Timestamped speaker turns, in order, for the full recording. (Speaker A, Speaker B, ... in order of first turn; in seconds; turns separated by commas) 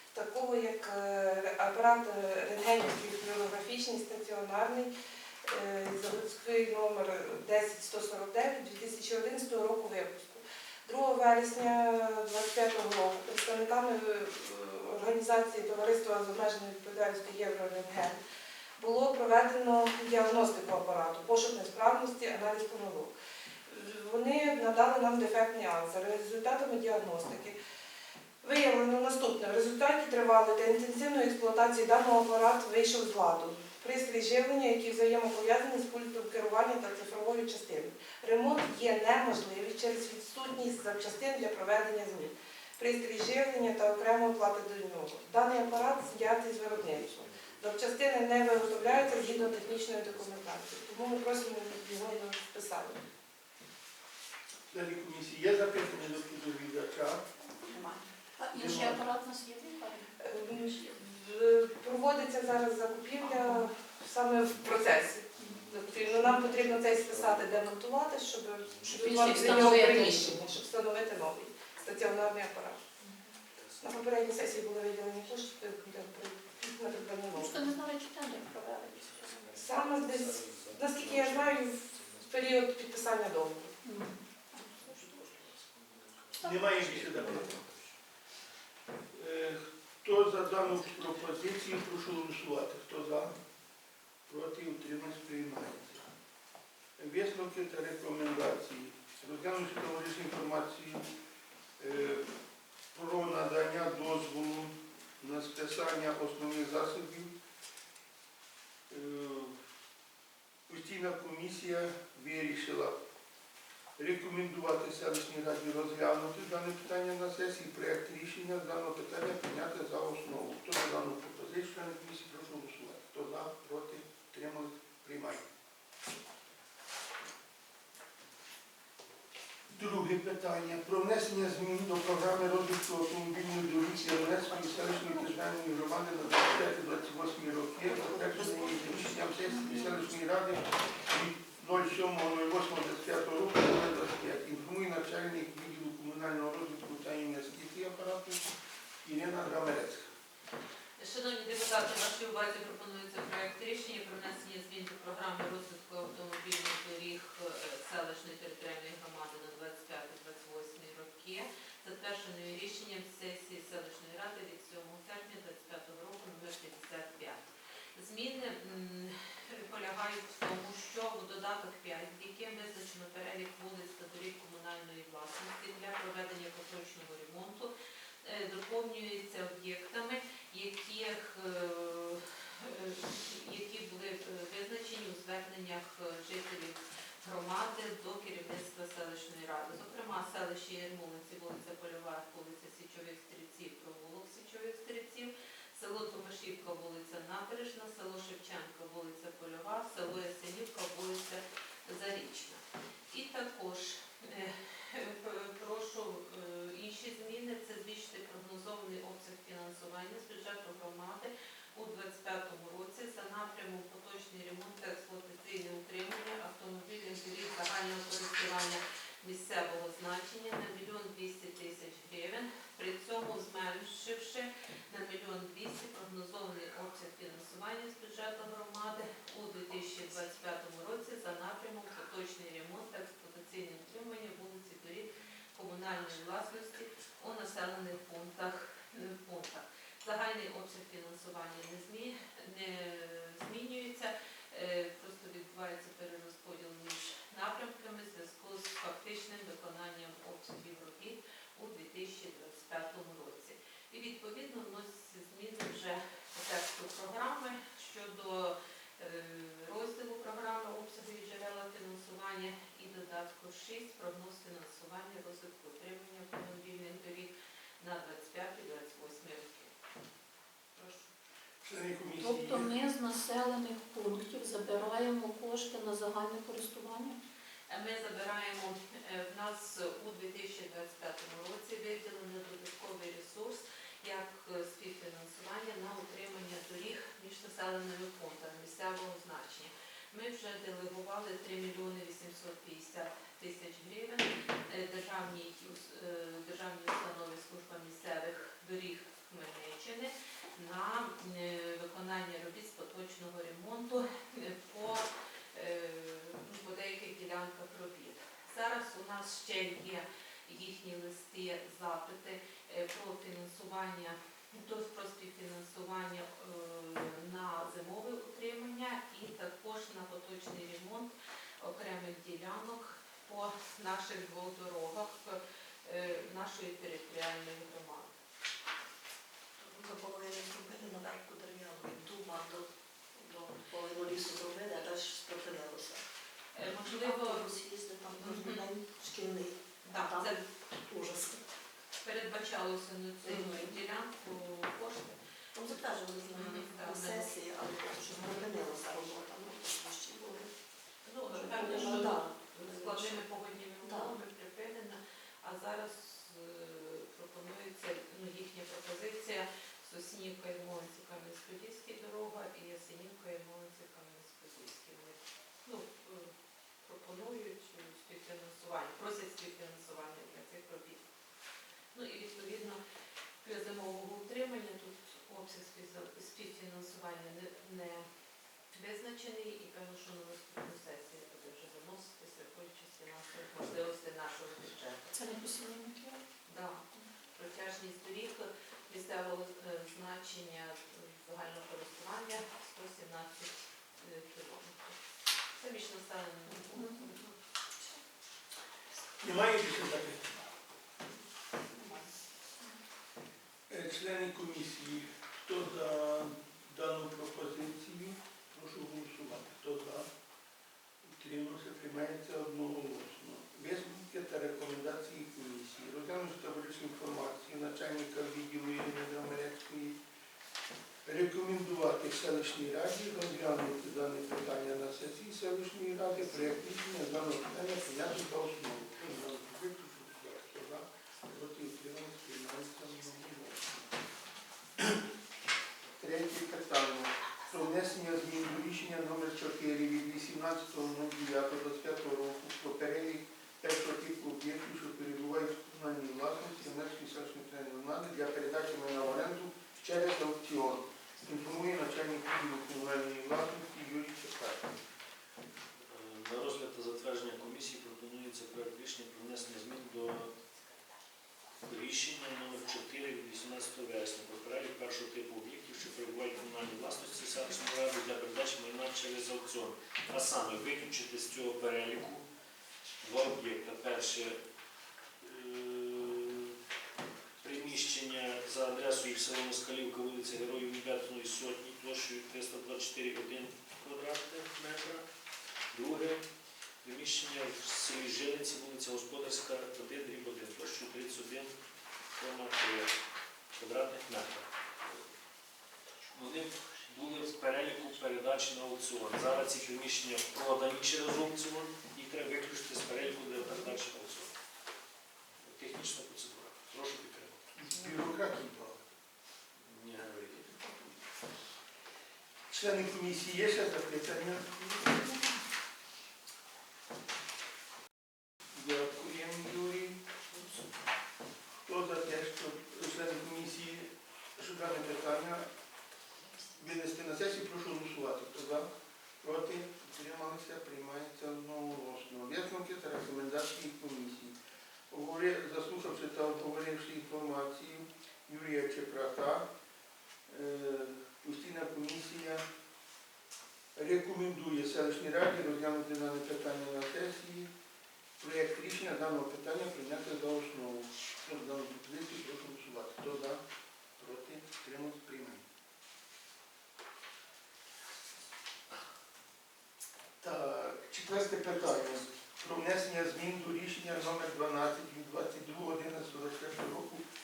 Speaker A: 0.1-4.9, Speaker A: 5.5-18.2, Speaker A: 18.8-23.1, Speaker A: 23.7-27.6, Speaker A: 28.4-53.0, Speaker B: 45.6-47.8, Speaker B: 48.6-50.6, Speaker C: 54.7-57.3, Speaker D: 57.7-61.0, Speaker C: 58.5-59.0, Speaker A: 60.2-72.8, Speaker B: 64.4-64.7, Speaker B: 65.3-69.6, Speaker D: 66.2-66.6, Speaker D: 68.9-70.5, Speaker E: 69.0-70.3, Speaker B: 70.5-71.2, Speaker B: 71.8-72.4, Speaker B: 73.5-74.4, Speaker A: 73.8-77.7, Speaker B: 75.5-76.1, Speaker D: 77.3-79.5, Speaker B: 78.9-82.7, Speaker A: 79.5-83.8, Speaker D: 83.8-85.0, Speaker B: 84.6-88.0, Speaker D: 86.4-87.5, Speaker C: 86.4-87.6, Speaker C: 89.1-93.3, Speaker C: 94.3-96.0, Speaker C: 97.0-101.1, Speaker C: 101.8-102.3, Speaker C: 102.9-107.3, Speaker C: 108.9-109.6, Speaker C: 110.7-113.0, Speaker C: 114.0-125.5, Speaker C: 129.7-148.4, Speaker F: 134.7-135.0, Speaker F: 138.1-138.9, Speaker D: 139.6-140.0, Speaker C: 149.0-150.1, Speaker E: 151.0-177.7, Speaker E: 178.2-269.7, Speaker E: 270.8-271.1, Speaker C: 271.6-272.8, Speaker D: 272.2-277.2, Speaker E: 277.7-328.1, Speaker F: 329.6-336.1, Speaker E: 336.5-337.6, Speaker F: 336.8-341.4, Speaker E: 338.1-338.7, Speaker E: 339.8-340.4, Speaker E: 342.0-347.4, Speaker F: 343.3-343.8, Speaker F: 345.6-350.5, Speaker E: 351.1-371.0, Speaker F: 351.3-353.3, Speaker F: 353.8-354.2, Speaker E: 371.9-372.8, Speaker E: 373.4-378.0, Speaker E: 378.7-385.1, Speaker D: 385.1-386.2, Speaker E: 386.5-395.0, Speaker E: 395.6-397.2, Speaker D: 396.7-397.2, Speaker C: 399.2-400.4, Speaker C: 403.7-410.1, Speaker C: 411.1-420.0, Speaker C: 421.1-433.8, Speaker C: 436.0-454.7, Speaker B: 455.8-460.3, Speaker B: 461.7-472.3, Speaker B: 473.0-474.4, Speaker B: 475.2-476.6, Speaker B: 477.4-485.1, Speaker B: 485.7-486.2, Speaker B: 486.8-491.5, Speaker B: 492.2-492.9, Speaker B: 493.6-495.0, Speaker B: 496.1-504.3, Speaker B: 505.4-507.5, Speaker C: 507.6-508.8, Speaker B: 509.6-510.6, Speaker C: 512.5-514.6, Speaker C: 518.5-520.0, Speaker C: 521.7-525.5, Speaker C: 526.6-528.7, Speaker C: 529.2-534.4, Speaker C: 534.9-539.5, Speaker C: 540.3-542.4, Speaker C: 543.8-547.5, Speaker C: 548.2-553.4, Speaker C: 554.0-555.5, Speaker C: 560.2-567.0